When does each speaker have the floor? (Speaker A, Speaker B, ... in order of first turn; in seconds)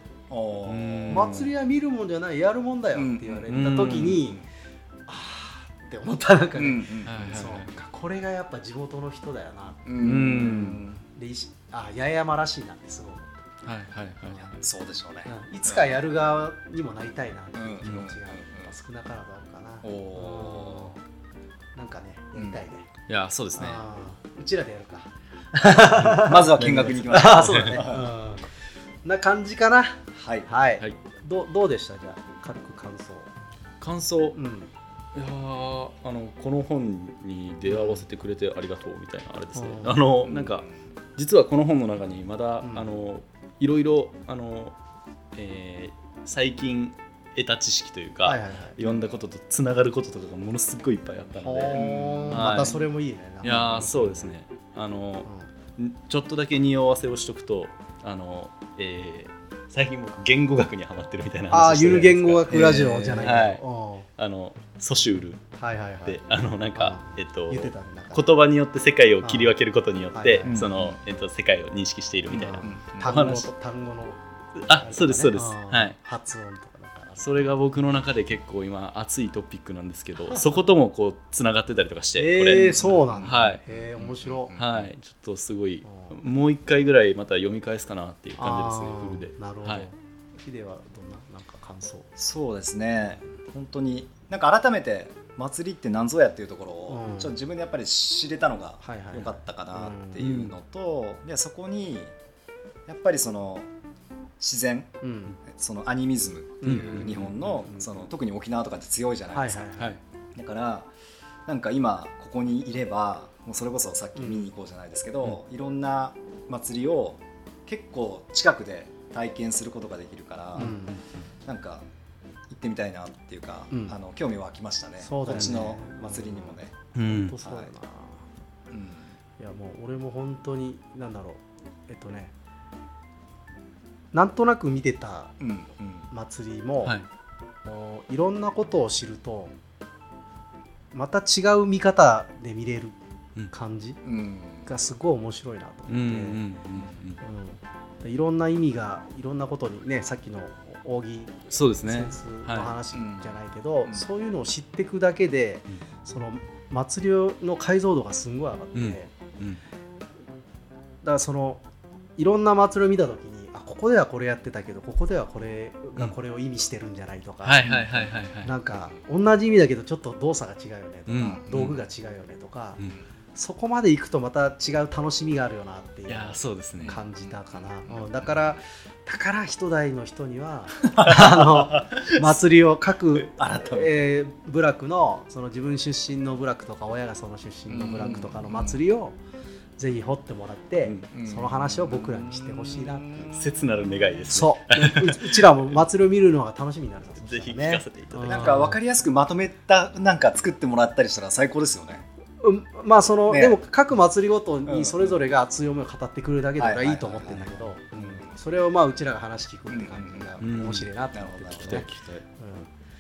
Speaker A: 0.3-1.5, 3.0-3.5, 4.2-4.4, 6.6-7.2, 9.9-11.0, 14.6-16.0, 17.6-18.7, 19.8-20.9, 26.2-28.1, 30.2-30.5, 40.2-40.7, 48.8-49.1, 51.7-52.8, 53.5-54.2, 62.5-63.3, 70.5-71.0, 72.6-73.3, 82.8-84.9, 92.2-102.1, 102.9-103.7, 104.4-104.9, 105.4-110.9, 111.5-120.8, 121.5-121.8, 122.5-126.8, 127.4-127.7, 128.7-129.1, 135.4-136.1, 144.1-144.7, 152.9-153.3, 167.7-168.1, 171.3-171.6, 176.8-177.3, 177.9-178.3, 183.2-183.9, 187.7-188.8, 191.0-193.4, 198.3-202.1, 203.3-203.6, 204.7-205.2, 206.6-208.3, 209.7-210.3, 211.1-211.9
Speaker B: 0.7-1.5, 3.5-4.2, 7.0-7.7, 10.0-10.8, 13.6-14.5, 23.1-23.8, 26.6-27.8, 33.8-34.4, 35.1-44.8, 45.3-52.8, 53.4-63.6, 64.2-65.4, 66.0-73.5, 74.6-76.0, 77.2-83.6, 84.6-89.9, 100.2-100.5, 106.6-107.3, 120.6-121.0, 127.0-127.4, 145.9-147.2, 151.5-152.7, 158.8-159.6, 167.4-168.5, 171.1-171.8, 176.1-177.0, 181.3-182.2, 193.3-195.6, 197.2-198.6, 210.4-210.9, 211.6-212.2
Speaker C: 1.1-4.4, 5.1-13.4, 14.2-14.5, 15.3-21.0, 21.8-22.9, 23.6-33.3, 34.4-34.7, 37.7-38.0, 39.5-40.0, 42.6-43.0, 48.2-48.8, 51.4-54.1, 61.5-64.1, 65.6-66.2, 66.8-68.2, 69.2-69.5, 70.1-70.6, 72.3-77.2, 80.3-80.5, 82.2-84.5, 85.9-86.2, 88.4-92.1, 96.9-97.4, 98.8-100.2, 105.0-105.4, 106.6-108.1, 109.3-110.0, 114.2-114.5, 120.6-121.0, 123.7-124.0, 125.0-128.3, 129.4-132.3, 134.1-135.3, 136.1-137.0, 137.7-139.5, 140.9-143.0, 143.5-144.0, 144.7-146.4, 147.2-159.1, 161.0-161.6, 162.2-172.8, 173.3-189.2, 189.8-193.3, 194.3-198.8, 202.4-211.9, 212.4-212.7